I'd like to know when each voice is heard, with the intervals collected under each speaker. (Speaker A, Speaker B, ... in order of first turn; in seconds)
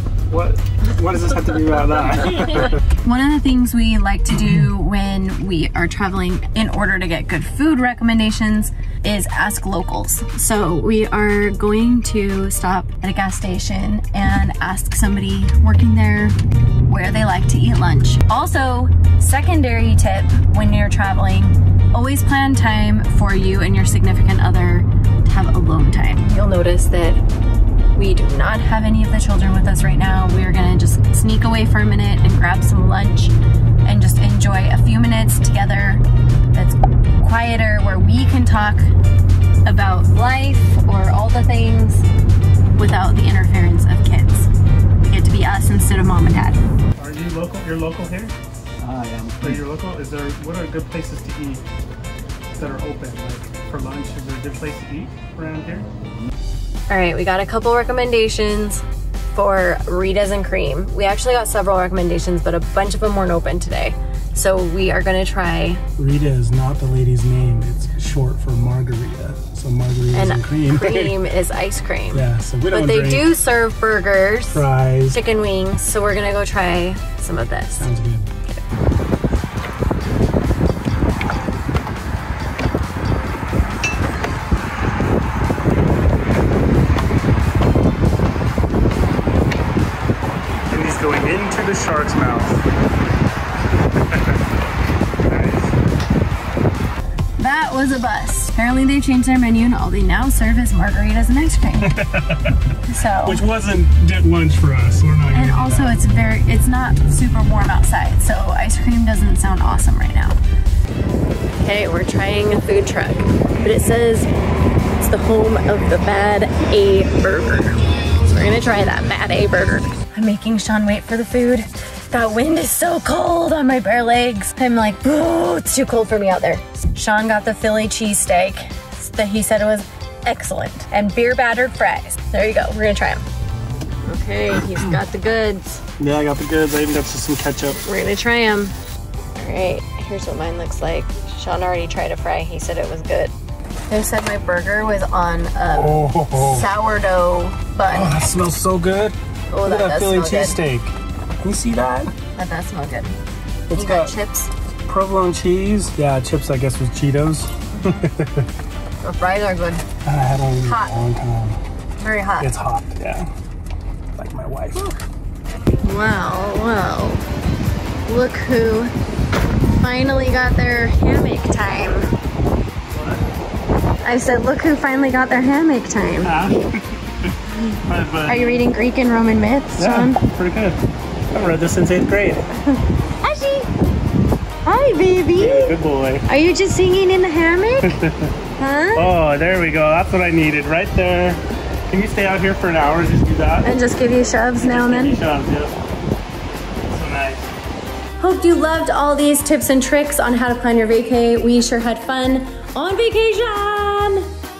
Speaker A: 0.3-2.8, 47.0-48.3, 49.1-51.6, 52.5-55.9, 66.0-71.2, 72.1-73.3, 74.5-75.2, 77.8-78.3, 90.7-92.6, 94.0-94.4, 95.2-95.8, 101.8-102.6, 103.2-106.0, 136.0-137.8, 145.7-146.7, 147.9-152.1, 153.7-154.1, 154.8-158.5, 160.0-161.6, 162.4-163.3, 164.2-164.9, 172.9-173.2, 176.2-178.6, 179.8-180.8, 181.3-182.5, 185.3-186.2, 187.8-188.3, 188.9-193.7, 194.5-195.8, 196.9-197.5
Speaker B: 2.5-27.2, 27.9-38.9, 39.6-42.0, 42.8-44.5, 45.0-46.6, 56.9-65.8, 70.1-77.9, 97.4-102.0, 102.8-103.5, 105.3-110.4, 111.5-114.3, 115.0-133.2, 134.0-135.8, 137.8-138.7, 139.3-143.3, 143.9-148.3, 149.5-150.6, 152.3-153.1, 153.7-154.5, 159.0-159.8, 160.6-160.9, 162.0-162.5, 165.8-167.2, 168.1-168.9, 169.8-172.1, 174.0-176.3, 177.5-180.2, 182.7-183.7, 184.6-188.0, 188.6-189.1, 193.6-195.2, 198.2-204.3